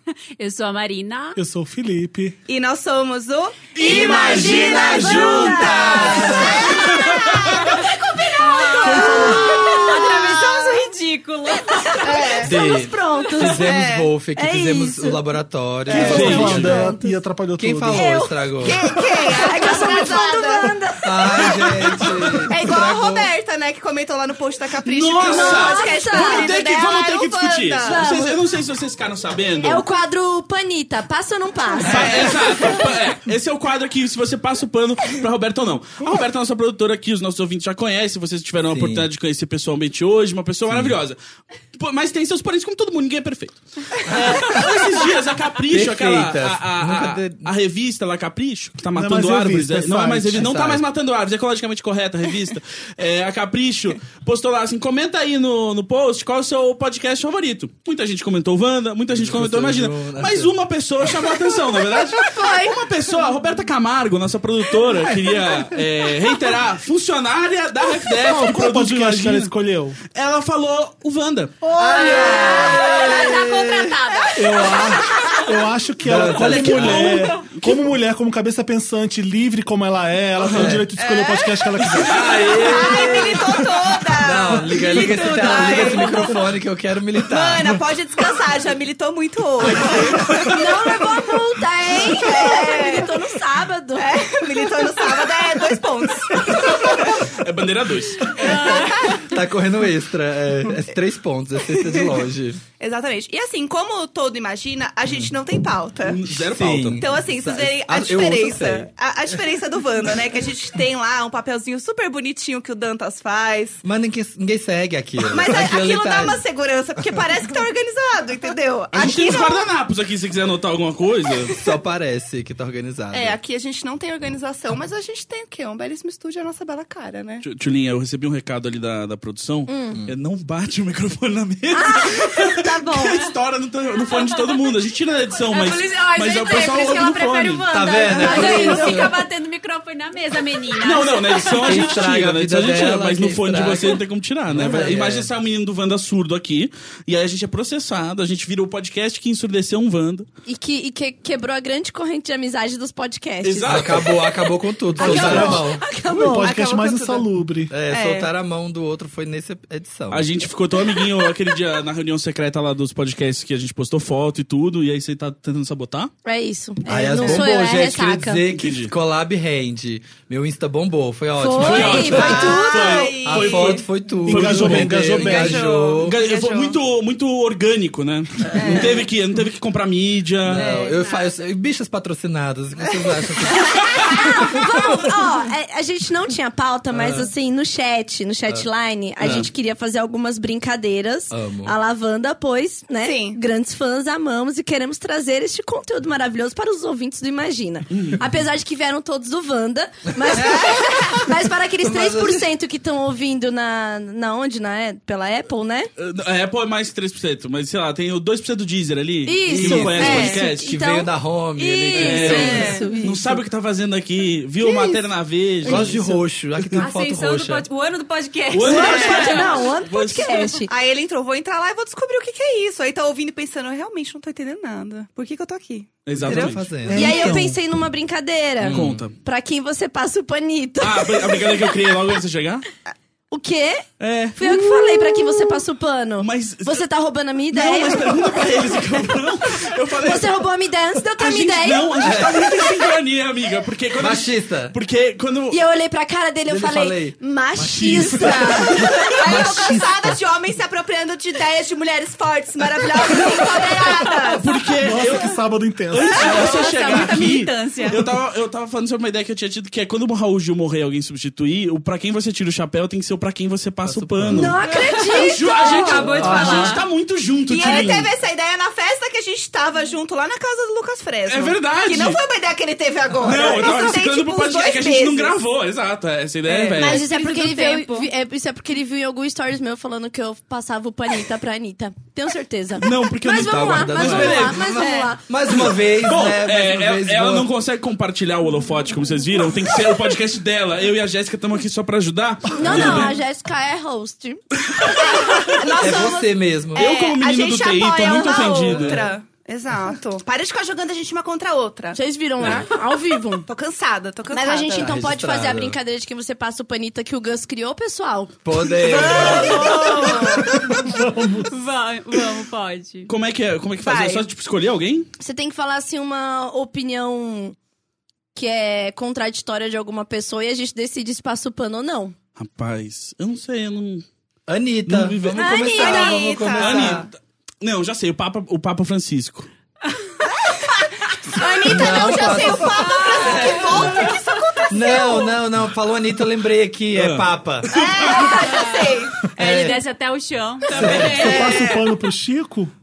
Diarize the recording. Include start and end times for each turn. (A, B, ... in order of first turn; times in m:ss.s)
0:00.4-0:01.4 A
0:01.4-0:02.4 B
0:02.5-0:07.9 C
0:03.8-0:05.8 D
0:03.8-0:09.8 E
0:03.9-0:06.8 F
0:08.4-0:12.4 A
0:08.8-0:09.8 B
0:09.0-0:10.8 C
0:11.7-0:15.2 E
0:12.0-0:12.6 C
0:12.4-0:17.0 F
0:13.5-0:14.1 C
0:15.9-0:16.3 C
0:15.9-0:18.2 B
0:15.9-0:16.6 D
0:16.0-0:17.2 E
0:17.6-0:18.8 F
0:17.9-0:18.4 E
0:18.6-0:20.7 C
0:19.4-0:21.7 E
0:21.0-0:23.3 F
0:22.5-0:28.0 C
0:24.8-0:29.8 D
0:25.2-0:26.5 E
0:27.8-0:28.4 E
0:29.6-0:32.9 E
0:31.8-0:41.2 D
0:31.9-0:32.8 C
0:38.7-0:39.1 F
0:40.7-0:41.0 F
0:41.8-1:09.5 D
0:44.0-0:44.9 F
0:45.7-0:47.5 F
0:48.9-0:50.5 B
0:50.3-0:50.8 F
0:59.1-1:00.5 F
1:08.1-1:10.0 B
1:10.1-1:11.6 D
1:11.8-1:14.0 F
1:11.8-1:15.4 A
1:11.8-1:12.2 B
1:12.0-1:12.8 C
1:14.4-1:22.5 B
1:16.0-1:17.2 F
1:16.2-1:17.9 D
1:20.4-1:20.8 D
1:20.5-1:20.9 F
1:21.0-1:26.4 C
1:22.0-1:27.8 F
1:24.8-1:26.3 A
1:27.3-1:30.7 C
1:30.5-1:34.1 E
1:31.9-1:33.2 C
1:34.0-1:37.3 C
1:37.3-1:38.3 D
1:38.3-1:39.2 A
1:38.4-1:39.1 C
1:38.4-1:42.6 F
1:41.7-1:42.2 C
1:42.8-1:46.2 C
1:46.1-1:47.0 D
1:46.5-1:48.9 F
1:47.0-1:53.8 C
1:53.8-1:56.4 F
1:55.3-1:59.7 C
1:58.9-2:01.6 D
2:01.5-2:03.4 F
2:03.1-2:07.4 C
2:07.4-2:17.7 D
2:09.7-2:10.0 E
2:11.7-2:13.2 E
2:14.1-2:14.5 A
2:15.4-2:22.0 A
2:17.7-2:19.2 F
2:18.1-2:18.9 C
2:18.2-2:18.8 E
2:20.7-2:30.3 D
2:21.4-2:25.3 F
2:30.5-2:34.2 E
2:33.4-2:34.2 D
2:33.7-2:35.8 F
2:35.0-2:37.8 B
2:35.0-2:36.6 E
2:36.4-2:37.3 C
2:37.7-2:40.3 F
2:37.9-2:38.3 C
2:40.1-2:46.1 D
2:40.9-2:41.3 E
2:46.2-2:48.4 E
2:46.9-2:56.2 F
2:48.5-2:48.9 D
2:51.4-2:53.1 E
2:51.6-2:55.3 D
2:52.1-2:53.8 C
2:54.2-2:55.7 B
2:55.2-2:56.8 C
2:56.0-3:00.7 D
2:58.5-2:59.0 F
2:58.5-2:59.1 C
3:00.4-3:04.6 F
3:00.6-3:01.3 A
3:03.9-3:25.9 E
3:06.9-3:07.3 F
3:09.2-3:09.5 F
3:11.3-3:11.8 F
3:13.0-3:13.4 C
3:17.9-3:18.2 D
3:20.3-3:20.7 F
3:20.4-3:20.9 C
3:21.8-3:22.5 F
3:26.0-3:30.7 D
3:29.3-3:33.4 E
3:29.5-3:32.8 F
3:30.0-3:30.4 C
3:32.0-3:36.0 D
3:32.2-3:32.9 C
3:34.6-3:35.0 C
3:35.6-3:37.7 F
3:36.8-3:39.6 A
3:38.5-3:40.6 D
3:38.6-3:40.7 E
3:38.7-3:39.3 C
3:40.7-3:46.6 C
3:46.1-3:46.7 D
3:46.1-3:47.6 F
3:46.9-3:47.5 B
3:46.9-3:51.5 E
3:48.6-3:49.1 D
3:48.6-3:49.0 F
3:50.8-3:52.7 D
3:53.3-3:58.8 E
3:54.0-3:54.6 D
3:56.2-3:56.8 D
3:57.5-4:00.4 D
4:00.0-4:01.9 E
4:01.2-4:05.6 D
4:02.0-4:02.6 F
4:04.0-4:04.8 F
4:05.5-4:09.2 E
4:06.5-4:07.2 F
4:07.6-4:08.3 D
4:07.9-4:08.3 F
4:08.0-4:10.2 B
4:09.1-4:14.6 C
4:13.4-4:14.3 E
4:14.4-4:15.4 D
4:14.8-4:16.3 B
4:15.9-4:24.6 D
4:16.1-4:18.0 C
4:16.2-4:18.0 A
4:23.8-4:24.6 F
4:24.3-4:26.4 E
4:24.7-4:26.8 A
4:25.1-4:28.1 D
4:25.8-4:26.8 F
4:27.5-4:35.4 C
4:27.6-4:27.9 E
4:31.3-4:32.2 D
4:33.2-4:37.0 D
4:36.5-4:38.1 C
4:36.6-4:37.0 F
4:36.8-4:45.2 E
4:42.8-4:44.8 D
4:43.3-4:47.5 F
4:44.8-4:45.1 C
4:45.5-4:53.1 D
4:52.5-4:54.4 E
4:52.6-4:53.1 F
4:54.8-4:55.4 D
4:55.0-5:02.0 C
4:55.8-4:56.9 F
4:56.8-4:59.1 D
4:58.7-4:59.0 F
5:01.9-5:03.5 E
5:03.5-5:05.0 C
5:04.3-5:08.4 E
5:04.7-5:05.8 F
5:08.4-5:09.8 F
5:08.8-5:10.6 C
5:09.1-5:10.5 A
5:10.5-5:11.5 B
5:11.4-5:13.1 A
5:13.1-5:15.1 D
5:13.8-5:14.3 C
5:15.2-5:17.6 E
5:18.4-5:22.2 E
5:22.4-5:24.0 D
5:24.5-5:27.1 F
5:24.9-5:25.6 D
5:25.4-5:26.4 E
5:25.6-5:27.1 C
5:26.6-5:29.5 D
5:30.4-5:35.4 C
5:31.4-5:33.5 E
5:31.7-5:34.1 F
5:33.0-5:34.0 A
5:34.7-5:37.7 F
5:36.9-5:38.4 D
5:37.7-5:39.4 C
5:38.4-5:41.6 A
5:39.4-5:39.8 F
5:40.7-5:41.6 F
5:40.8-5:42.7 B
5:41.0-5:41.9 C